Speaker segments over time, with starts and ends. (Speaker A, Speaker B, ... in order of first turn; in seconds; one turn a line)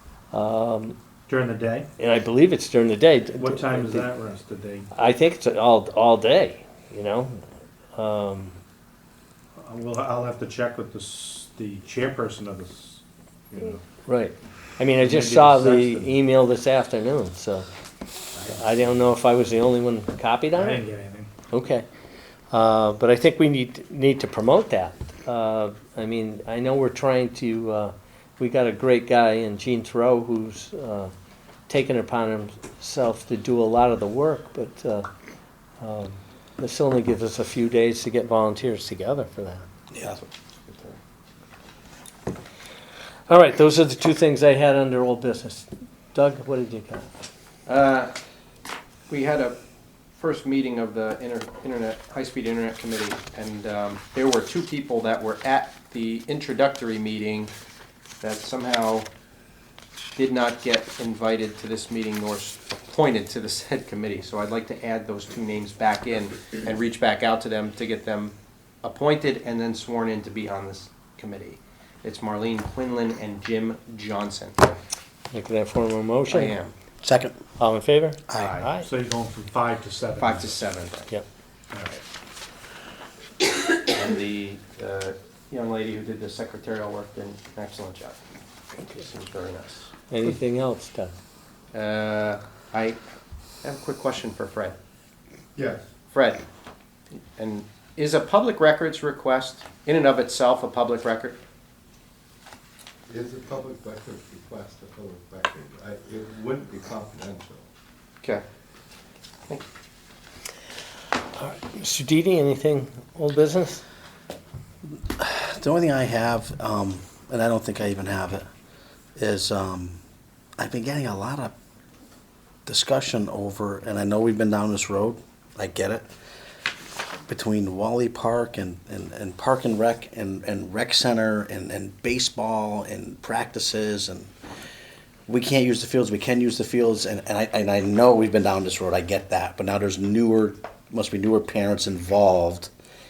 Speaker A: 0.3-1.0
Speaker B: 1.3-1.9
Speaker A: 2.0-4.1
Speaker B: 3.4-4.9
Speaker A: 4.9-7.4
Speaker A: 8.0-8.6
Speaker B: 9.6-13.8
Speaker A: 14.1-17.6
Speaker B: 15.0-16.1
Speaker A: 18.4-20.8
Speaker B: 20.5-21.3
Speaker A: 21.5-21.8
Speaker A: 22.5-31.1
Speaker A: 31.7-35.1
Speaker A: 35.8-39.6
Speaker C: 40.0-41.0
Speaker A: 43.3-47.1
Speaker C: 47.6-48.1
Speaker C: 49.1-49.6
Speaker C: 50.2-57.5
Speaker C: 58.2-59.1
Speaker C: 60.1-74.8
Speaker A: 75.3-76.5
Speaker C: 76.3-76.7
Speaker D: 77.0-77.4
Speaker A: 77.6-78.9
Speaker B: 78.3-80.6
Speaker C: 80.2-81.1
Speaker B: 81.7-82.0
Speaker C: 83.6-88.2
Speaker C: 88.8-89.9
Speaker A: 90.1-91.1
Speaker C: 91.7-93.0
Speaker C: 93.6-94.8
Speaker E: 95.5-95.8
Speaker C: 96.1-96.4
Speaker C: 97.3-101.4
Speaker E: 103.1-107.6
Speaker A: 111.3-113.8
Speaker D: 115.1-118.5
Speaker D: 119.2-120.0
Speaker D: 120.6-121.5
Speaker D: 122.7-126.1
Speaker D: 127.3-134.3
Speaker D: 135.3-142.7